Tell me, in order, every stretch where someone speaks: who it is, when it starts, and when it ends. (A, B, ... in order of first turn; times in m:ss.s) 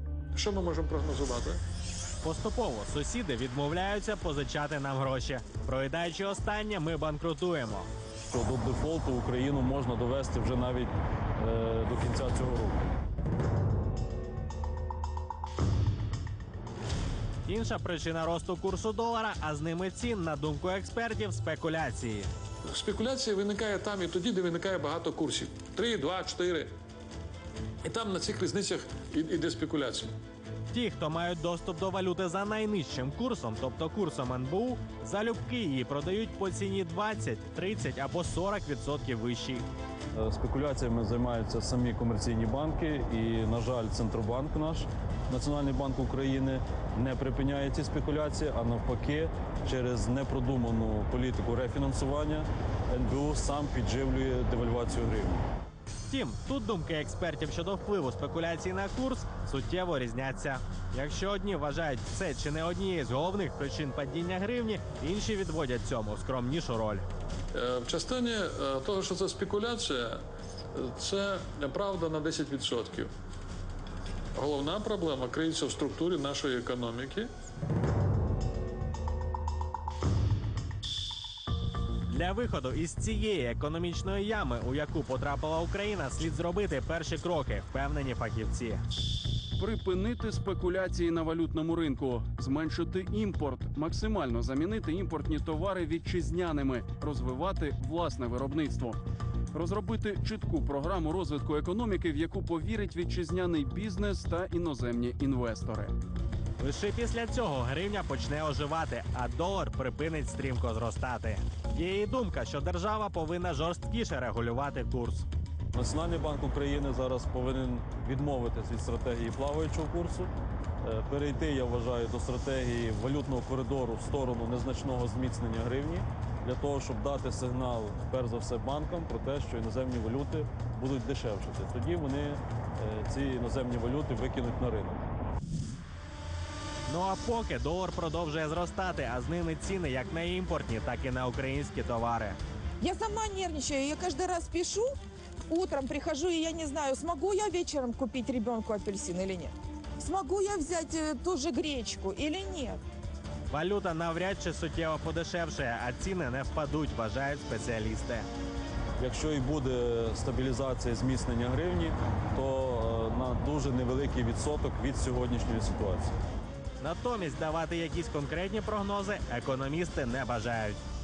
0:00.3-0:01.6 A
0:02.2-0:07.9 B
0:08.3-0:12.9 C
0:17.5-0:22.3 B
0:22.7-0:26.7 A
0:27.8-0:30.1 A
0:30.7-0:39.7 B
0:40.1-0:55.4 C
0:56.1-1:07.0 B
1:07.5-1:10.2 A
1:10.8-1:13.1 A
1:14.4-1:17.3 A
1:22.1-1:28.8 B
1:29.6-1:39.0 D
1:39.5-1:45.9 D
1:46.6-1:55.3 B
1:55.7-2:00.3 C
2:00.8-2:15.0 C
2:16.9-2:22.4 B
2:22.8-2:24.9 E
2:25.5-2:32.8 E
2:33.5-2:38.3 B
2:39.0-2:46.1 C
2:46.8-2:50.8 B